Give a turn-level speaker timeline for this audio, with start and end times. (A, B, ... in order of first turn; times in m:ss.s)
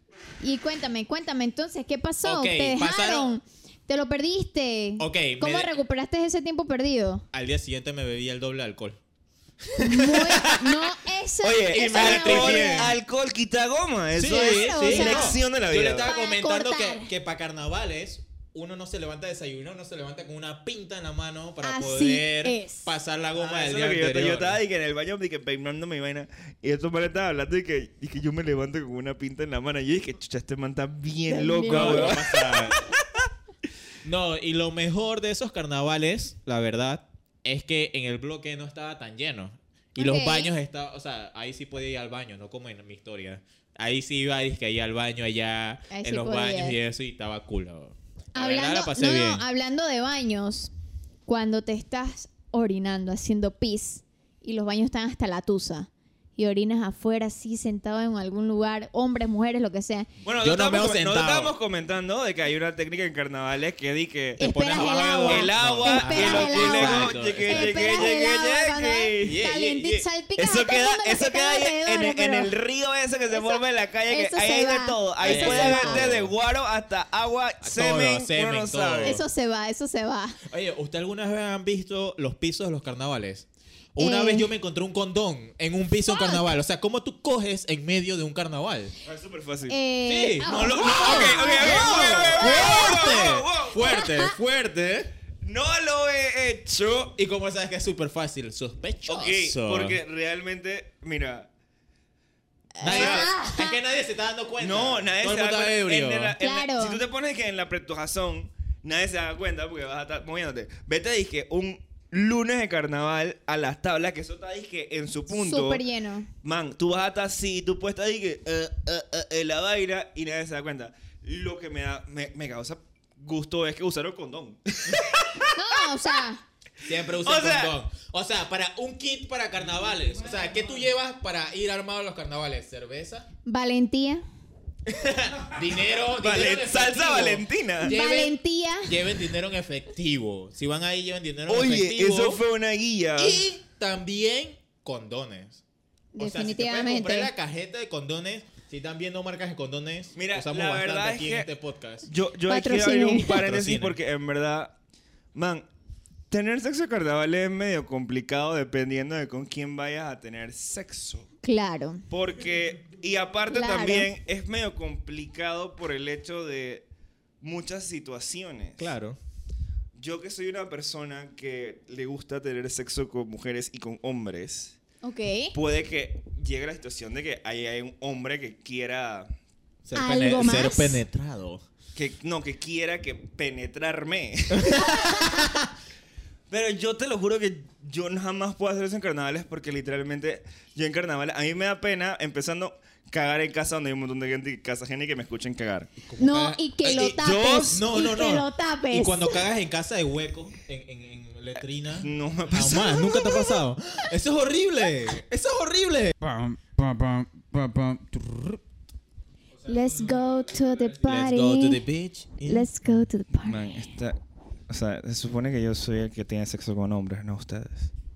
0:00.4-0:07.2 A
0:02.2-0:03.3 B
0:05.0-0:05.7 B
0:07.3-0:09.0 B
0:09.7-0:10.9 B
0:09.8-0:13.0 A
0:11.4-0:16.1 C
0:11.7-0:13.0 B
0:14.2-0:24.6 B
0:14.3-0:15.4 A
0:16.0-0:17.1 A
0:21.6-0:22.9 A
0:23.3-0:32.9 C
0:31.3-0:32.2 A
0:31.6-0:32.8 B
0:34.0-0:49.4 B
0:40.0-0:40.5 A
0:45.9-0:46.8 A
0:48.3-0:50.7 A
0:51.3-1:00.1 A
1:00.2-1:09.4 C
1:00.4-1:01.5 B
1:04.4-1:12.5 A
1:04.4-1:08.1 B
1:09.2-1:10.0 B
1:10.4-1:19.2 C
1:13.3-1:16.1 A
1:15.2-1:16.3 B
1:17.6-1:19.2 B
1:19.0-1:20.4 A
1:20.5-1:23.4 B
1:24.0-1:28.9 B
1:24.0-1:24.5 A
1:26.1-1:26.4 A
1:29.0-1:29.8 C
1:29.7-1:33.2 A
1:30.1-1:35.1 B
1:30.4-1:34.0 C
1:33.8-1:34.3 A
1:35.4-1:37.2 C
1:37.2-1:40.0 B
1:39.1-1:41.5 C
1:42.8-1:43.8 A
1:42.8-1:46.4 B
1:42.8-1:43.3 C
1:44.6-1:55.8 C
1:46.4-1:47.0 A
1:55.3-1:56.3 A
1:56.4-2:05.8 C
2:05.5-2:06.4 A
2:06.8-2:13.2 B
2:07.1-2:07.7 C
2:13.4-2:14.2 A
2:14.9-2:22.4 B
2:16.1-2:17.9 C
2:17.8-2:18.9 A
2:21.5-2:23.4 C
2:23.2-2:25.6 B
2:26.1-2:27.3 A
2:26.2-2:32.0 B
2:30.2-2:31.5 C
2:32.0-2:34.8 C
2:32.5-2:33.4 A
2:33.3-2:34.0 B
2:35.3-2:35.7 C
2:36.3-2:41.3 C
2:41.4-2:42.0 A
2:42.1-2:46.8 C
2:43.5-2:44.1 A
2:47.4-2:48.9 C
2:48.8-2:49.2 B
2:49.9-2:54.8 C
2:55.0-2:55.6 A
2:55.5-2:59.3 C
2:59.8-3:01.6 B
2:59.9-3:01.0 A
3:01.9-3:05.2 C
3:04.6-3:04.9 B
3:04.7-3:05.5 A
3:06.5-3:15.9 C
3:16.1-3:16.6 B
3:16.2-3:19.4 A
3:16.8-3:17.8 C
3:17.6-3:26.1 B
3:22.0-3:23.2 C
3:23.0-3:23.6 A
3:26.2-3:28.1 D
3:28.1-3:28.6 B
3:29.6-3:31.0 D
3:29.6-3:31.8 A
3:31.0-3:32.7 B
3:32.4-3:33.7 A
3:33.4-3:34.2 C
3:34.7-3:37.9 C